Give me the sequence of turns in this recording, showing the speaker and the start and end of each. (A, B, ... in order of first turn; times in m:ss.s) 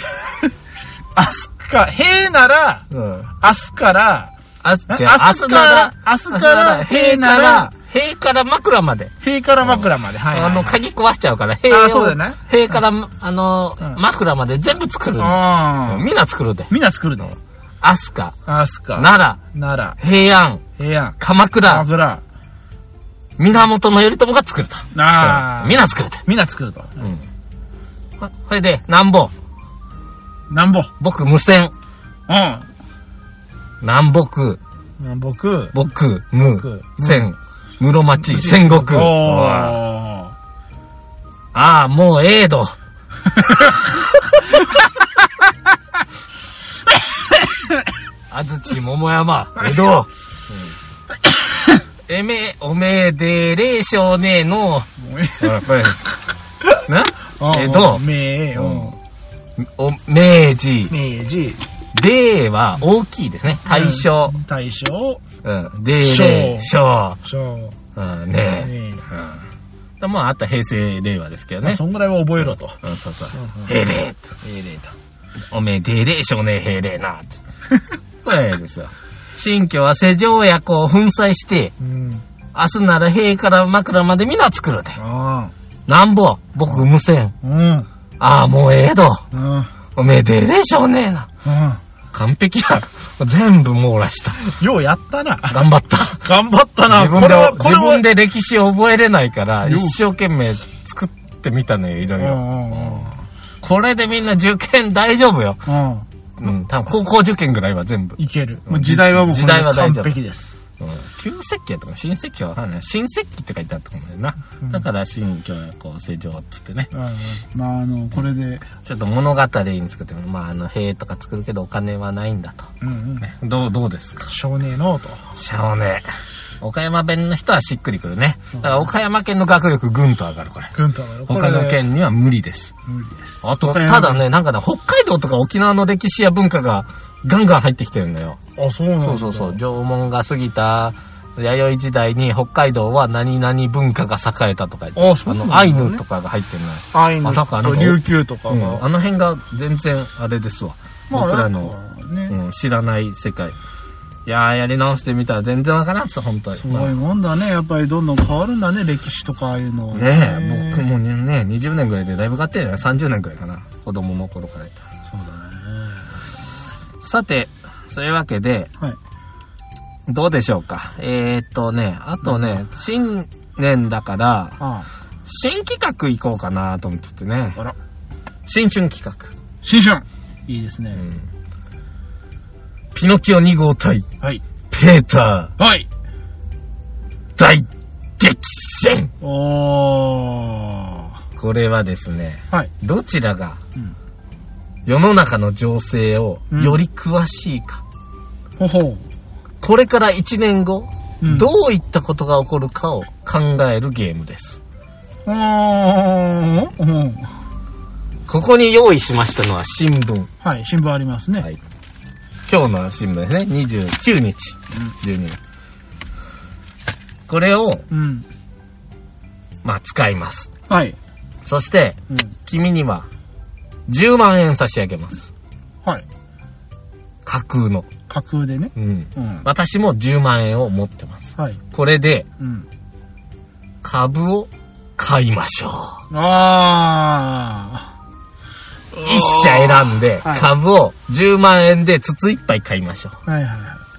0:01.2-0:02.9 A
0:02.9-0:03.3 B
0:03.4-0:04.3 A
0:04.6-0:16.7 B
0:04.9-0:07.7 A
0:09.2-0:10.8 A
0:11.7-0:12.4 A
0:15.2-0:16.1 A
0:16.7-0:17.4 A
0:17.8-0:18.4 B
0:18.5-0:20.0 A
0:19.0-0:19.4 B
0:20.0-0:20.6 B
0:20.8-0:22.2 A
0:21.2-0:21.9 B
0:23.4-0:26.2 B
0:24.9-0:27.1 A
0:27.0-0:27.3 B
0:28.2-0:29.3 B
0:30.5-0:30.9 A
0:31.0-0:31.7 B
0:32.3-0:32.7 A
0:33.8-0:34.6 B
0:35.0-0:35.8 A
0:35.7-0:39.8 B
0:36.6-0:37.3 A
0:38.2-0:40.4 A
0:41.5-0:42.8 B
0:47.4-0:47.8 A
0:48.3-0:50.7 B
0:49.6-0:50.0 A
0:51.2-0:51.8 A
0:52.1-0:54.9 B
0:55.0-0:56.0 A
0:55.4-0:56.0 B
0:56.8-0:59.0 B
0:57.4-0:59.0 A
0:59.6-1:01.0 B
1:00.9-1:01.6 A
1:01.9-1:04.4 B
1:03.7-1:05.2 A
1:05.4-1:07.2 B
1:06.0-1:07.8 A
1:08.0-1:09.4 B
1:08.6-1:09.1 A
1:10.0-1:11.8 B
1:11.6-1:12.8 A
1:12.8-1:14.4 B
1:13.3-1:13.7 A
1:14.4-1:14.9 A
1:15.5-1:17.4 B
1:18.2-1:21.7 B
1:21.8-1:22.2 A
1:22.5-1:25.0 B
1:25.0-1:25.5 A
1:25.9-1:27.3 B
1:27.4-1:27.9 A
1:28.2-1:29.3 B
1:29.3-1:29.7 A
1:30.0-1:31.3 B
1:31.4-1:31.8 A
1:32.1-1:34.6 B
1:34.5-1:35.6 A
1:35.5-1:36.2 B
1:36.2-1:38.0 A
1:36.9-1:45.6 B
1:39.6-1:40.0 A
1:42.2-1:43.2 A
1:45.7-1:46.1 A
1:46.4-1:50.2 B
1:48.2-1:50.6 A
1:50.8-1:56.9 B
1:56.9-1:58.7 A
1:58.8-2:04.3 B
2:02.8-2:03.2 A
2:04.3-2:05.3 A
2:05.4-2:06.1 B
2:06.6-2:10.8 B
2:08.6-2:08.9 A
2:10.7-2:11.8 A
2:11.3-2:12.7 B
2:12.9-2:14.2 A
2:13.4-2:18.4 B
2:18.6-2:19.6 A
2:19.0-2:31.7 B
2:25.0-2:26.0 A
2:26.9-2:28.8 A
2:31.1-2:32.4 A
2:32.3-2:33.6 B
2:34.3-2:36.9 B
2:36.6-2:40.9 A
2:39.9-2:44.8 B
2:45.1-2:46.2 A
2:47.0-2:48.7 B
2:50.1-2:54.6 B
2:52.2-2:52.6 A
2:54.6-2:54.9 A
2:55.3-2:57.6 B
2:58.5-2:59.3 B
2:59.6-3:01.1 A
3:01.0-3:01.2 B
3:02.9-3:04.1 B
3:04.7-3:05.5 B
3:05.6-3:05.9 A
3:07.4-3:09.1 B
3:09.2-3:11.2 A
3:11.4-3:13.6 B
3:14.8-3:17.8 B
3:16.5-3:16.8 A
3:18.6-3:19.0 A
3:19.6-3:24.6 B
3:21.2-3:21.5 A
3:25.3-3:27.3 A
3:28.3-3:30.3 B
3:30.4-3:31.5 A
3:32.5-3:35.4 B
3:37.3-3:37.8 B
3:37.9-3:38.3 A
3:39.6-3:40.5 B
3:40.7-3:41.0 A
3:41.5-3:43.1 B
3:43.9-3:45.3 B
3:47.2-3:47.9 B
3:48.1-3:49.4 A
3:48.8-3:52.3 B
3:52.4-3:52.7 A
3:53.8-3:56.0 B
3:56.1-3:57.9 A
3:59.0-4:00.5 A
3:59.0-4:03.2 B
4:03.3-4:03.8 A